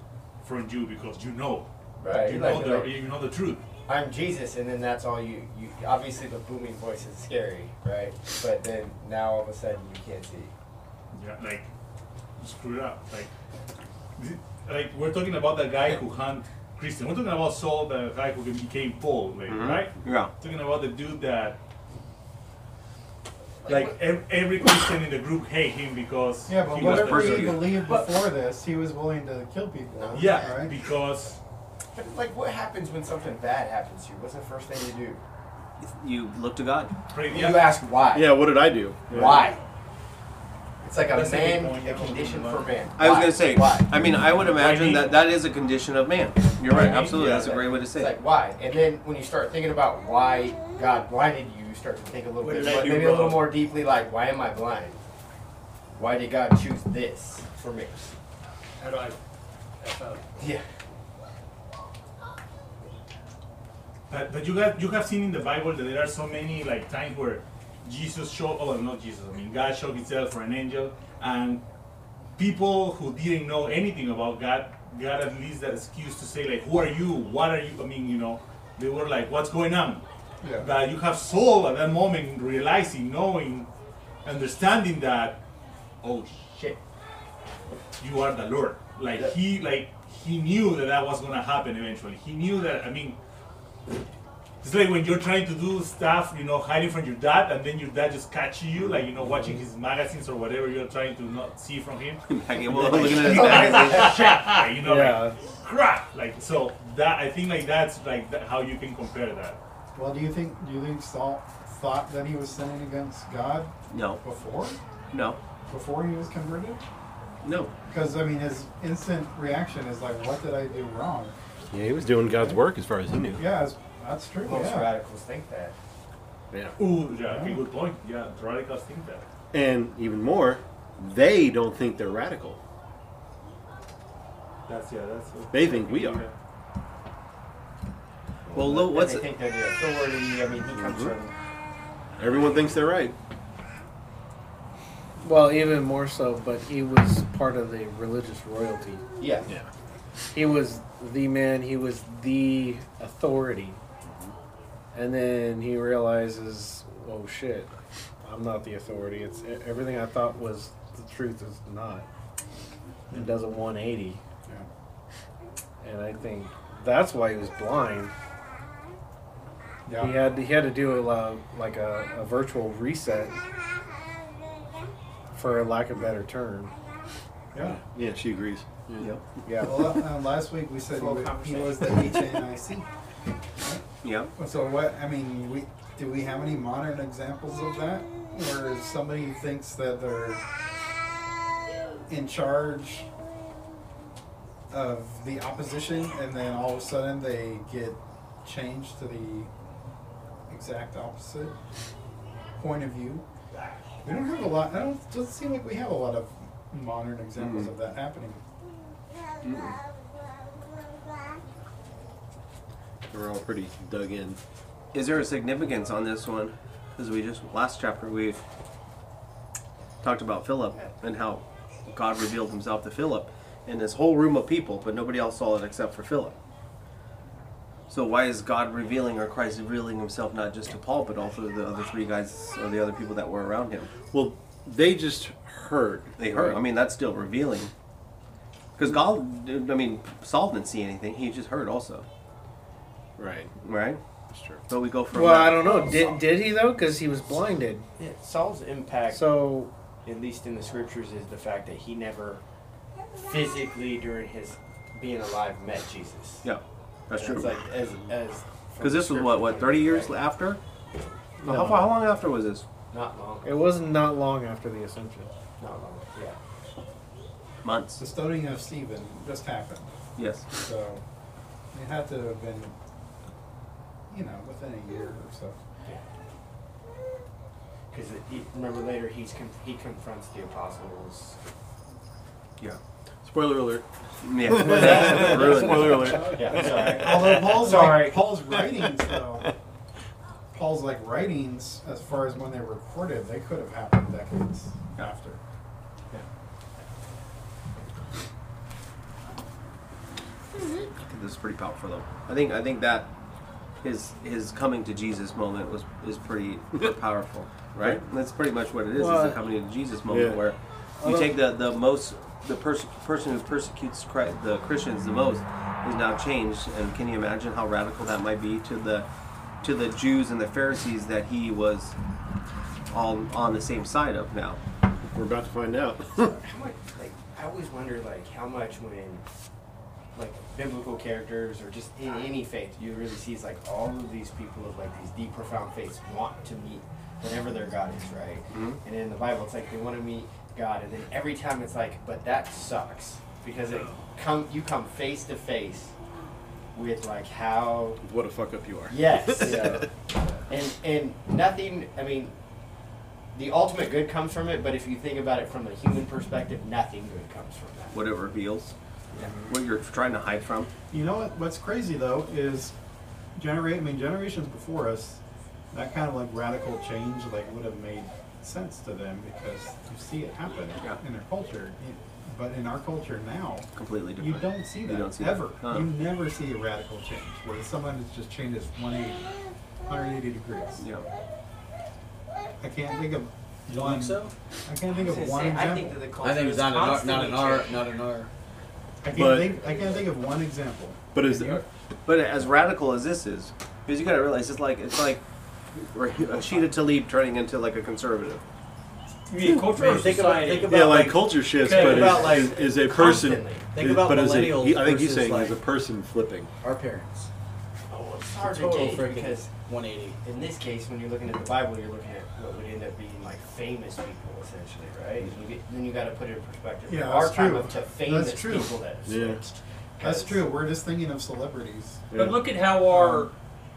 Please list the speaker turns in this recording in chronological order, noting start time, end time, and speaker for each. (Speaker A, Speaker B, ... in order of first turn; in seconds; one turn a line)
Speaker A: 0.4-3.6
Speaker B: 2.0-3.1
Speaker B: 3.9-10.5
Speaker A: 11.1-11.7
Speaker A: 12.4-13.3
Speaker A: 14.2-21.6
Speaker C: 19.5-20.3
Speaker B: 23.6-23.9
Speaker A: 23.6-27.8
Speaker D: 26.4-30.8
Speaker C: 26.8-27.8
Speaker E: 27.9-28.2
Speaker B: 30.0-30.5
Speaker A: 30.1-31.4
Speaker B: 31.9-35.2
Speaker C: 35.8-36.9
Speaker A: 37.1-37.8
Speaker B: 37.3-38.5
Speaker F: 38.1-39.5
Speaker B: 39.1-39.6
Speaker A: 39.1-39.4
Speaker B: 40.8-44.1
Speaker A: 41.1-42.8
Speaker C: 43.0-48.2
Speaker A: 44.4-45.2
Speaker A: 46.6-47.6
Speaker B: 46.7-55.0
Speaker E: 52.4-53.5
Speaker B: 55.9-58.1
Speaker E: 58.8-59.2
Speaker E: 59.8-60.2
Speaker B: 60.4-60.6
Speaker A: 64.1-71.6
Speaker A: 72.4-80.0
Speaker D: 80.4-80.8
Speaker A: 80.6-83.7
Speaker A: 84.2-85.4
Speaker A: 86.0-86.8
Speaker A: 88.0-93.2
Speaker A: 94.6-109.6
Speaker C: 102.3-104.1
Speaker D: 102.9-104.0
Speaker B: 103.0-104.2
Speaker G: 104.8-105.4
Speaker D: 109.9-114.8
Speaker C: 113.9-114.2
Speaker C: 115.1-115.4
Speaker D: 115.7-116.8
Speaker C: 117.4-117.7
Speaker D: 117.9-121.3
Speaker F: 121.7-123.4
Speaker D: 123.3-124.9
Speaker B: 124.4-125.7
Speaker F: 126.5-126.8
Speaker A: 126.8-129.2
Speaker D: 127.1-127.6
Speaker F: 129.5-132.6
Speaker A: 134.7-136.3
Speaker F: 135.5-136.2
Speaker B: 138.5-141.3
Speaker C: 138.5-139.2
Speaker F: 140.7-141.1
Speaker F: 142.2-143.1
Speaker G: 145.2-149.0
Speaker B: 149.2-149.5
Speaker G: 150.3-153.8
Speaker G: 154.9-157.7
Speaker G: 158.2-162.1
Speaker D: 163.1-163.4
Speaker G: 163.1-164.2
Speaker G: 165.8-168.1
Speaker D: 169.8-170.1
Speaker G: 170.0-173.4
Speaker G: 175.3-176.7
Speaker D: 177.5-177.8
Speaker F: 177.8-179.2
Speaker G: 179.4-180.0
Speaker D: 179.6-182.9
Speaker B: 180.9-182.4
Speaker D: 183.6-183.8
Speaker C: 184.0-184.3
Speaker D: 184.3-190.4
Speaker D: 192.1-193.1
Speaker D: 194.7-199.5
Speaker D: 200.5-201.6
Speaker D: 202.6-203.2
Speaker D: 204.0-208.4
Speaker C: 207.4-207.7
Speaker C: 209.4-209.7
Speaker F: 213.1-214.4
Speaker C: 214.9-218.4
Speaker C: 220.0-226.3
Speaker C: 227.9-233.9
Speaker F: 234.1-236.6
Speaker C: 236.2-237.7
Speaker C: 238.8-242.0
Speaker F: 243.2-243.5
Speaker C: 243.6-244.0
Speaker F: 244.3-244.6
Speaker C: 244.7-245.8
Speaker G: 245.1-247.8
Speaker B: 245.6-246.2
Speaker B: 248.0-249.4
Speaker G: 249.1-249.7
Speaker B: 250.0-252.4
Speaker B: 253.1-256.4
Speaker C: 256.4-257.5
Speaker B: 257.1-260.1
Speaker C: 258.8-260.6
Speaker G: 261.4-261.9
Speaker C: 261.4-262.6
Speaker B: 262.9-263.7
Speaker G: 263.4-265.3
Speaker B: 265.6-266.4
Speaker C: 267.6-268.0
Speaker D: 268.0-269.9
Speaker C: 270.1-270.5
Speaker D: 270.5-271.0
Speaker D: 271.7-272.7
Speaker D: 274.1-275.6
Speaker B: 277.9-281.4
Speaker F: 283.2-283.9
Speaker C: 284.2-286.3
Speaker F: 284.4-287.3
Speaker B: 284.6-288.3
Speaker D: 286.4-289.5
Speaker D: 290.5-295.4
Speaker C: 300.5-303.1
Speaker C: 303.8-319.1
Speaker G: 308.9-309.4
Speaker F: 310.1-310.4
Speaker C: 319.6-321.9
Speaker C: 322.9-324.6
Speaker F: 325.1-326.4
Speaker B: 326.1-329.2
Speaker B: 330.1-345.9
Speaker C: 338.5-338.8
Speaker B: 346.7-348.0
Speaker F: 348.0-349.9
Speaker B: 348.9-349.9
Speaker G: 349.4-349.8
Speaker B: 350.5-352.3
Speaker B: 353.3-358.0
Speaker C: 357.9-358.7
Speaker C: 359.5-360.7
Speaker D: 360.9-362.7
Speaker D: 363.4-365.2
Speaker D: 365.7-380.8
Speaker C: 373.8-375.9
Speaker C: 380.8-381.1
Speaker D: 382.6-386.1
Speaker H: 383.7-384.3
Speaker B: 384.9-387.8
Speaker H: 386.1-388.3
Speaker D: 389.0-391.0
Speaker F: 389.1-389.6
Speaker F: 391.1-391.6
Speaker C: 392.0-395.2
Speaker C: 395.7-398.4
Speaker E: 399.3-402.5
Speaker F: 399.4-400.1
Speaker H: 399.6-402.4
Speaker F: 400.6-406.5
Speaker B: 401.7-403.7
Speaker H: 403.7-405.6
Speaker H: 406.6-407.3
Speaker B: 407.9-409.5
Speaker H: 408.3-410.2
Speaker B: 410.2-420.4
Speaker D: 416.9-418.8
Speaker F: 419.1-419.4
Speaker D: 420.0-422.1
Speaker F: 422.1-422.4
Speaker E: 422.1-423.3
Speaker D: 422.9-423.3